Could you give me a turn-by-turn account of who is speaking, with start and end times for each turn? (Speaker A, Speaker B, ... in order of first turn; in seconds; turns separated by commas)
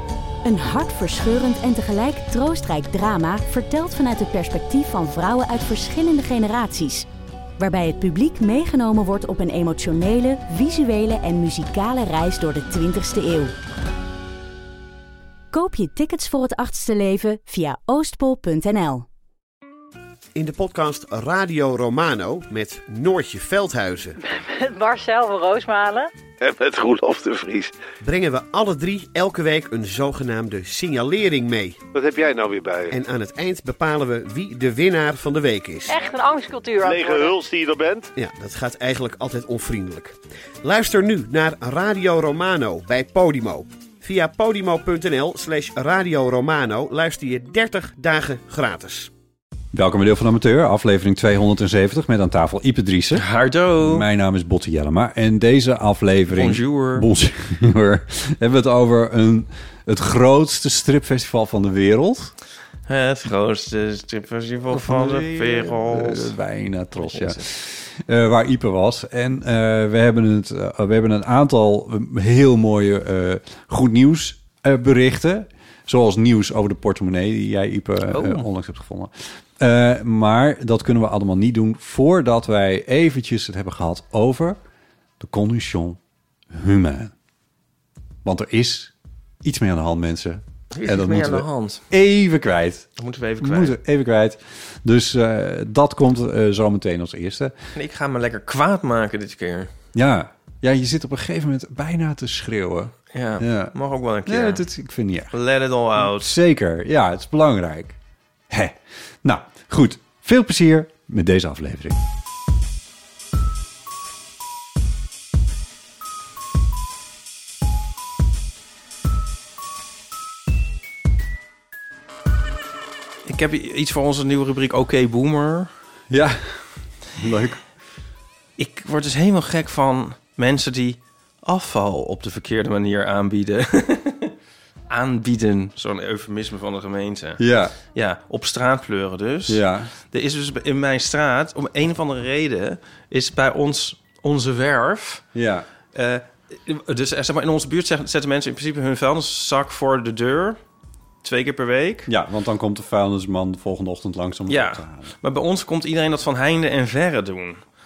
Speaker A: 0.4-7.1, Speaker A: 7.6-13.5, Speaker A: 15.5-19.1, Speaker B: 20.4-24.2, Speaker C: 24.2-26.1, Speaker D: 26.4-27.7, Speaker B: 28.0-31.8, Speaker D: 31.9-32.9, Speaker B: 32.9-36.0, Speaker C: 35.9-37.4, Speaker D: 36.8-38.1, Speaker B: 38.2-49.1, Speaker E: 49.7-53.3, Speaker F: 53.1-54.1, Speaker E: 53.8-62.3, Speaker F: 56.3-57.1, Speaker F: 62.9-66.3, Speaker E: 64.7-84.6, Speaker F: 67.0-67.5, Speaker F: 78.1-78.5, Speaker E: 85.2-86.0, Speaker E: 86.5-87.1, Speaker E: 88.2-92.9, Speaker F: 90.7-91.8, Speaker F: 93.0-93.8, Speaker E: 93.4-97.5, Speaker F: 97.8-99.7, Speaker E: 99.9-103.8, Speaker F: 103.1-104.6, Speaker E: 104.3-105.4, Speaker F: 105.3-106.4, Speaker E: 106.0-108.0, Speaker E: 108.5-112.0, Speaker F: 123.2-125.7, Speaker E: 126.1-127.6, Speaker F: 128.6-134.3, Speaker F: 134.9-145.2, Speaker E: 137.4-137.8, Speaker E: 139.5-139.9, Speaker E: 145.3-145.7, Speaker F: 145.9-150.6, Speaker F: 151.2-152.1, Speaker E: 152.1-155.1, Speaker F: 154.5-157.6